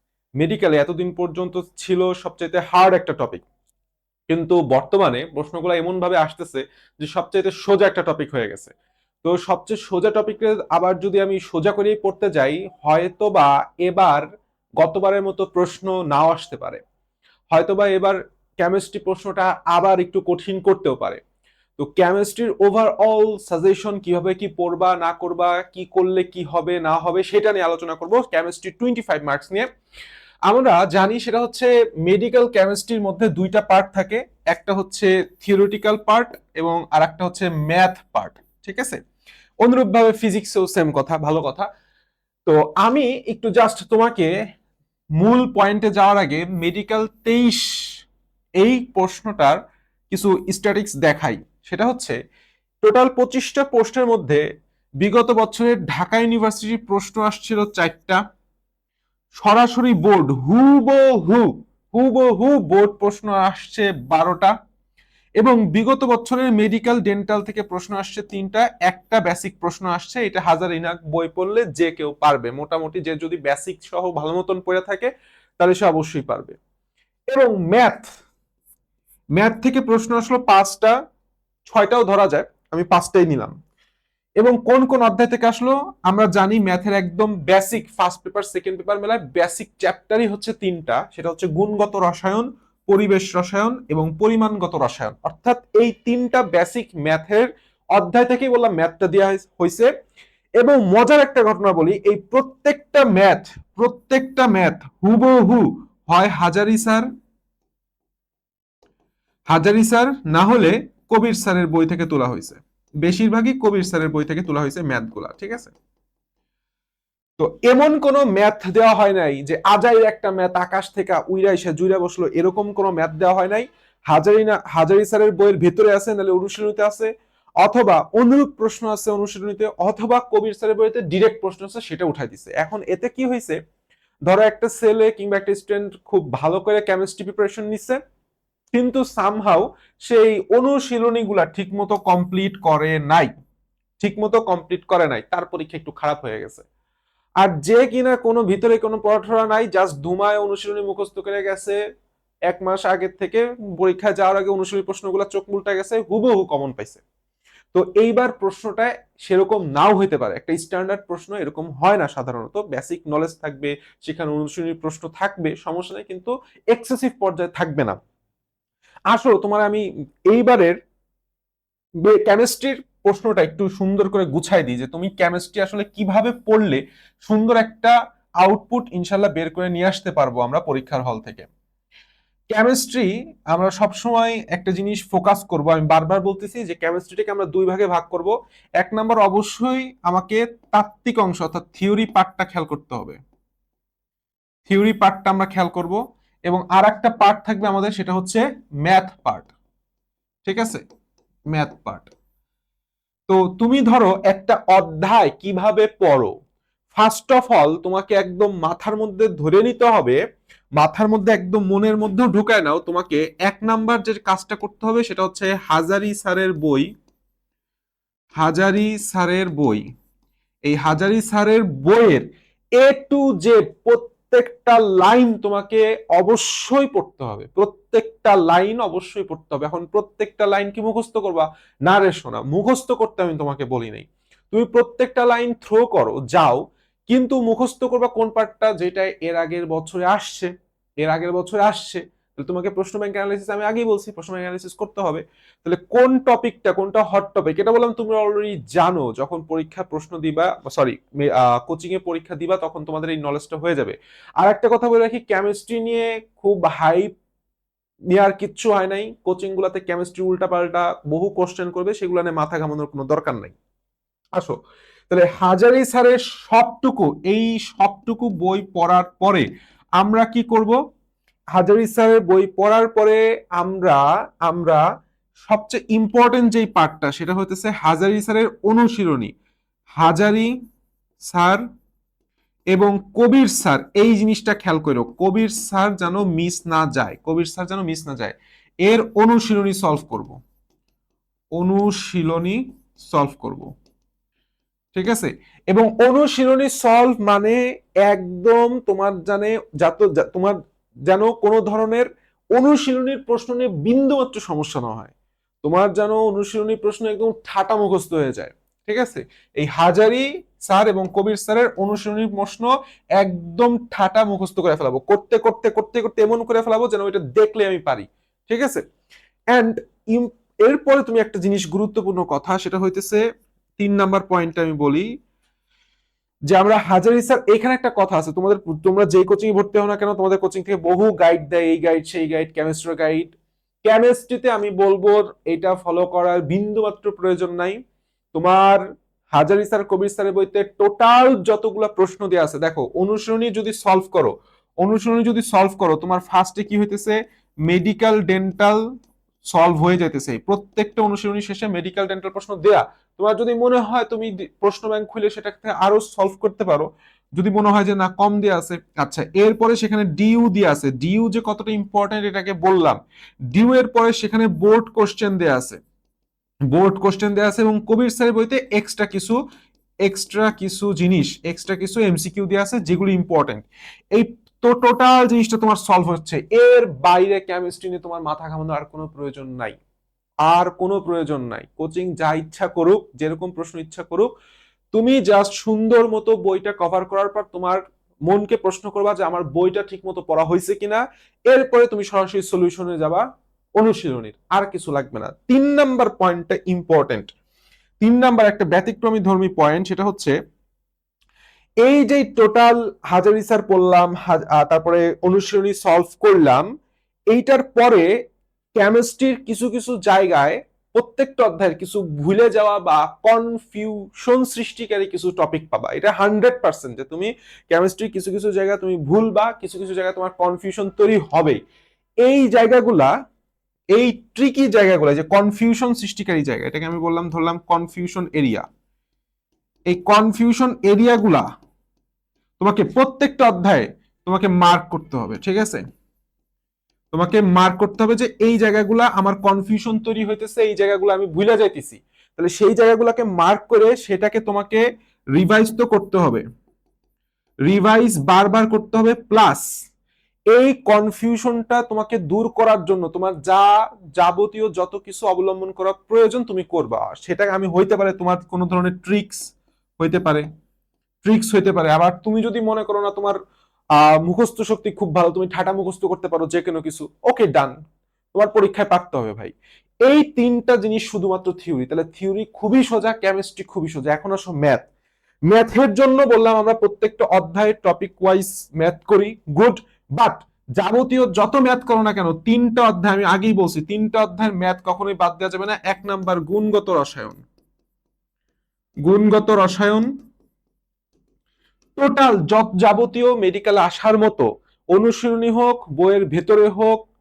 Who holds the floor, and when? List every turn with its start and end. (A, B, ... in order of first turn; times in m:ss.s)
0:00.4-0:03.4 A
0:04.3-0:08.7 A
0:09.2-0:14.2 A
0:14.8-0:16.8 A
0:17.5-0:21.2 A
0:21.8-0:29.7 A
0:30.5-0:39.0 A
0:39.6-0:41.7 A
0:42.4-0:44.3 A
0:45.2-0:47.6 A
0:48.6-0:49.6 A
0:50.1-0:52.2 A
0:52.8-0:54.4 A
0:55.0-0:58.2 A
0:59.4-1:04.5 A
1:05.4-1:16.6 A
1:17.3-1:18.1 A
1:19.4-1:20.9 A
1:21.7-1:23.5 A
1:24.4-1:39.9 A
1:40.6-1:47.0 A
1:49.5-1:55.7 A
1:57.4-2:07.1 A
2:07.6-2:13.6 A
2:14.3-2:18.0 A
2:18.7-2:23.3 A
2:24.0-2:26.6 A
2:27.4-2:31.8 A
2:32.5-2:37.0 A
2:37.7-2:48.0 A
2:49.1-2:50.8 A
2:52.0-3:01.5 A
3:02.5-3:13.2 A
3:14.7-3:19.5 A
3:20.4-3:20.8 A
3:21.5-3:22.1 A
3:23.3-3:26.3 A
3:26.9-3:30.2 A
3:30.8-3:36.9 A
3:38.4-3:39.8 A
3:40.6-3:42.2 A
3:42.8-4:17.1 A
4:18.1-4:23.5 A
4:25.1-4:29.4 A
4:30.0-4:30.8 A
4:31.5-4:34.8 A
4:35.4-4:39.3 A
4:40.0-4:40.5 A
4:41.3-4:41.6 A
4:42.7-4:50.4 A
4:51.6-4:53.7 A
4:54.9-5:18.8 A
5:19.5-5:23.2 A
5:23.8-5:25.1 A
5:26.5-5:37.8 A
5:38.3-5:47.2 A
5:47.7-5:48.8 A
5:49.5-6:03.0 A
6:03.5-6:05.8 A
6:06.7-6:09.4 A
6:10.0-6:19.8 A
6:20.4-6:24.3 A
6:24.9-6:33.2 A
6:33.8-6:37.3 A
6:38.0-6:40.3 A
6:41.8-6:46.6 A
6:47.3-6:48.1 A
6:48.8-7:01.6 A
7:02.2-7:03.1 A
7:03.9-7:08.6 A
7:09.9-7:11.4 A
7:12.6-7:15.8 A
7:17.1-7:24.8 A
7:25.4-7:26.4 A
7:27.7-7:29.6 A
7:30.5-7:39.4 A
7:40.0-7:40.4 A
7:41.2-7:43.4 A
7:44.0-7:47.7 A
7:48.3-7:49.5 A
7:50.0-7:54.8 A
7:55.5-8:07.4 A
8:09.0-8:10.1 A
8:12.0-8:17.1 A